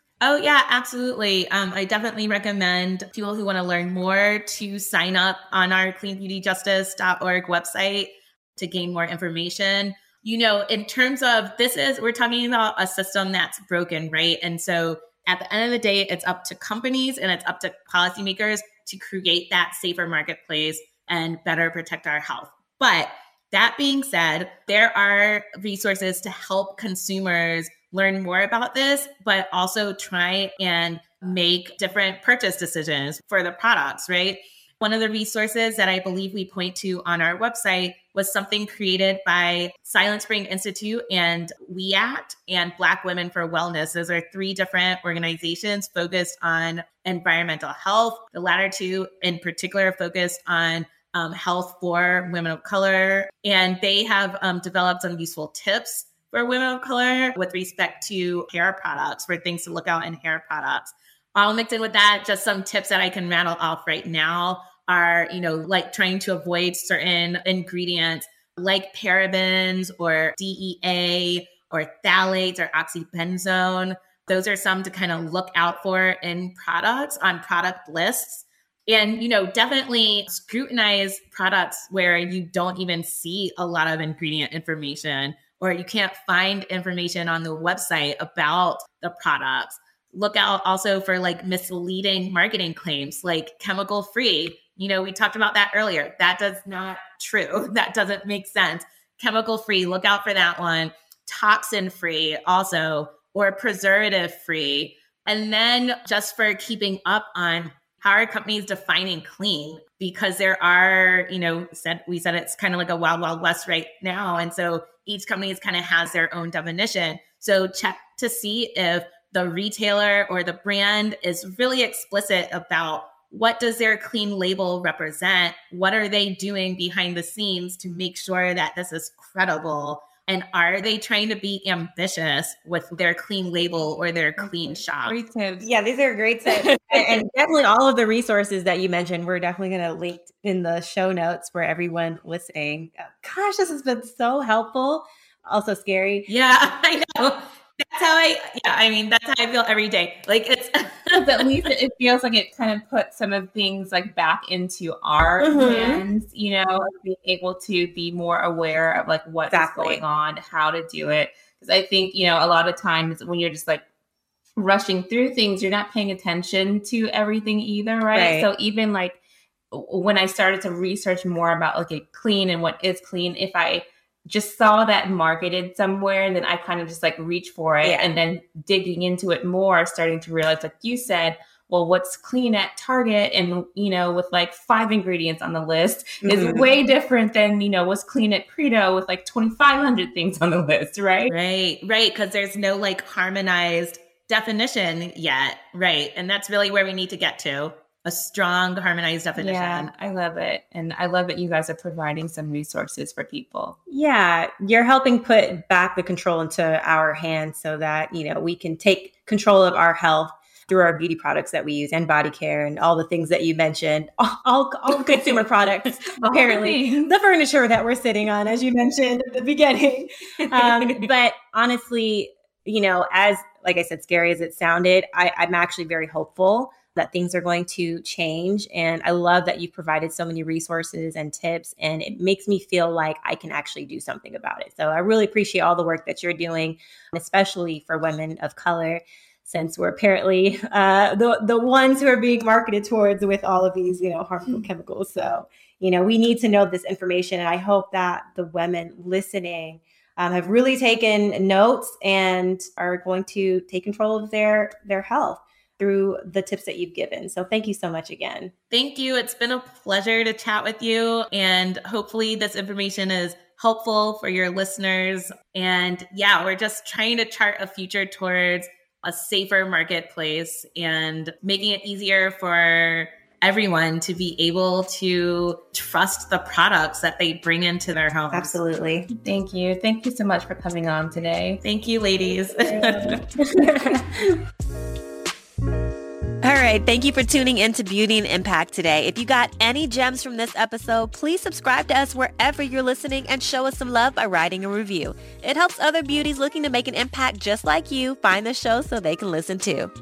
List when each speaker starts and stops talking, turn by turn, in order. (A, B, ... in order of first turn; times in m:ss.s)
0:00.2-2:15.2 A
2:15.0-2:15.7 B
2:15.6-2:26.3 C
2:26.3-2:31.7 A
2:31.1-2:43.8 B
2:35.4-2:36.0 C
2:39.5-2:40.0 C
2:44.6-2:49.2 B
2:48.1-2:48.5 C
2:49.7-3:11.3 B
2:57.8-2:58.1 C
3:06.2-3:06.7 C
3:11.3-3:19.9 A
3:19.4-3:23.8 B
3:23.9-4:18.5 C
3:36.0-3:37.1 B
4:18.7-4:38.6 A
4:38.3-4:39.1 C
4:39.2-4:41.6 B
4:41.6-4:43.2 A
4:42.8-4:44.2 C
4:46.4-4:59.9 D